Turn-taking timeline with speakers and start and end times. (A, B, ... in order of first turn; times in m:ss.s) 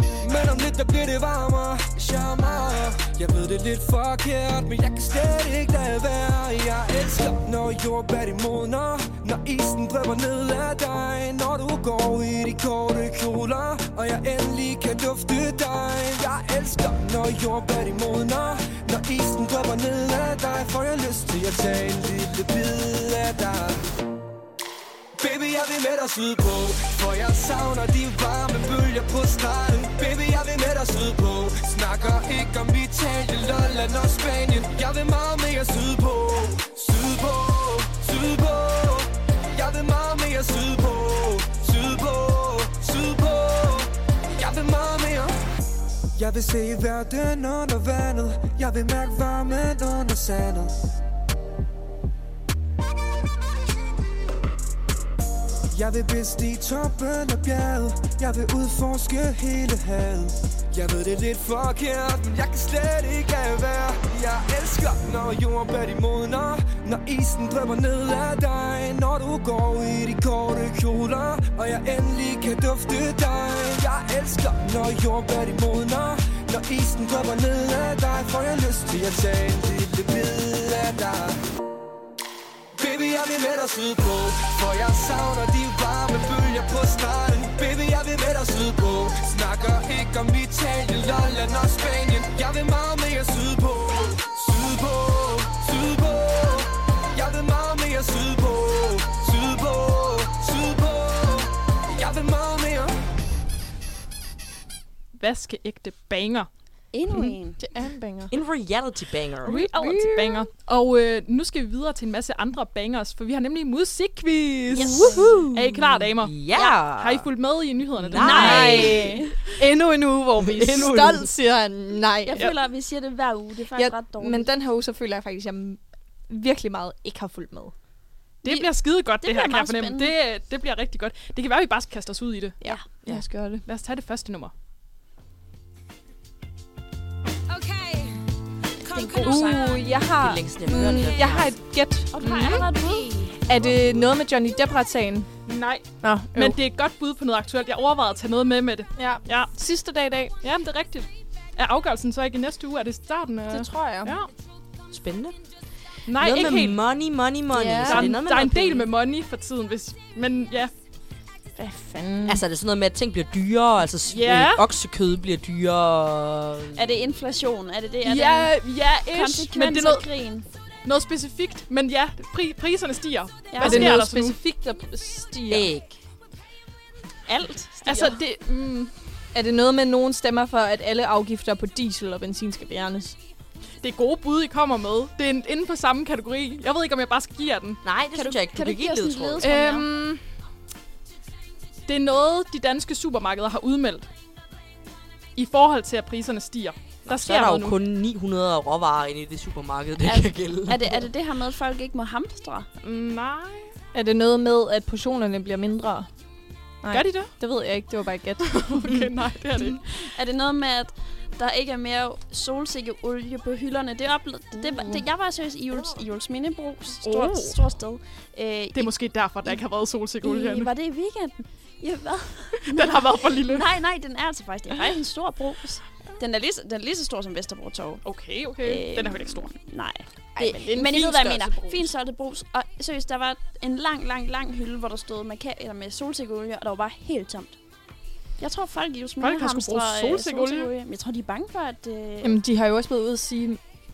0:00.2-0:23.9 A
0:25.2-0:45.4 A
0:46.2-0:50.9 A
0:55.7-1:21.4 A
1:22.8-1:43.0 A
1:45.2-1:46.5 B
1:46.9-1:47.6 C
1:47.1-1:48.3 D
1:48.3-1:49.7 E
1:49.5-1:59.0 B
1:49.7-1:50.5 D
1:54.7-1:55.2 C
1:55.0-1:55.5 D
1:55.0-1:57.3 E
1:58.0-1:59.1 E
1:58.2-1:59.4 C
1:58.3-2:02.5 D
2:00.4-2:01.3 E
2:02.2-2:04.5 C
2:03.8-2:07.7 D
2:08.4-2:12.6 B
2:08.5-2:10.2 C
2:12.6-2:13.6 D
2:13.7-2:14.5 B
2:18.8-2:19.9 C
2:19.2-2:25.3 D
2:20.2-2:21.6 E
2:22.1-2:23.5 C
2:22.3-2:22.6 B
2:25.5-2:29.6 B
2:26.0-2:26.6 D
2:29.0-2:30.4 D
2:30.4-2:34.3 B
2:33.5-2:34.2 D
2:34.9-2:35.4 E
2:36.1-2:36.8 B
2:36.2-2:38.9 E
2:37.5-2:38.2 D
2:37.8-2:40.7 B
2:41.6-2:42.4 D
2:42.3-2:47.0 E
2:44.1-2:44.6 B
2:46.8-2:48.5 C
2:48.0-2:50.0 B
2:49.1-2:50.5 C
2:50.8-2:54.4 B
2:53.5-2:53.9 C
2:53.6-2:55.7 D
2:55.5-2:56.0 E
2:57.3-2:58.2 C
2:57.8-2:58.9 B
2:59.3-3:03.2 D
3:03.8-3:07.8 B
3:07.8-3:09.5 E
3:08.2-3:09.9 C
3:09.4-3:10.1 B
3:09.5-3:10.2 D
3:11.9-3:14.1 B
3:15.4-3:17.8 B
3:17.1-3:21.1 E
3:20.0-3:22.7 C
3:22.8-3:23.7 B
3:23.9-3:26.1 D
3:26.8-3:29.1 D
3:26.9-3:27.4 B
3:28.7-3:29.8 B
3:29.9-3:39.6 C
3:37.0-3:37.6 B
3:38.7-3:40.7 B
3:40.2-3:48.0 C
3:42.6-3:43.7 B
3:48.0-3:49.5 B
3:48.6-3:57.6 C
3:50.4-3:51.9 D
3:58.4-4:02.4 C
3:59.2-4:00.7 B
4:02.2-4:03.6 D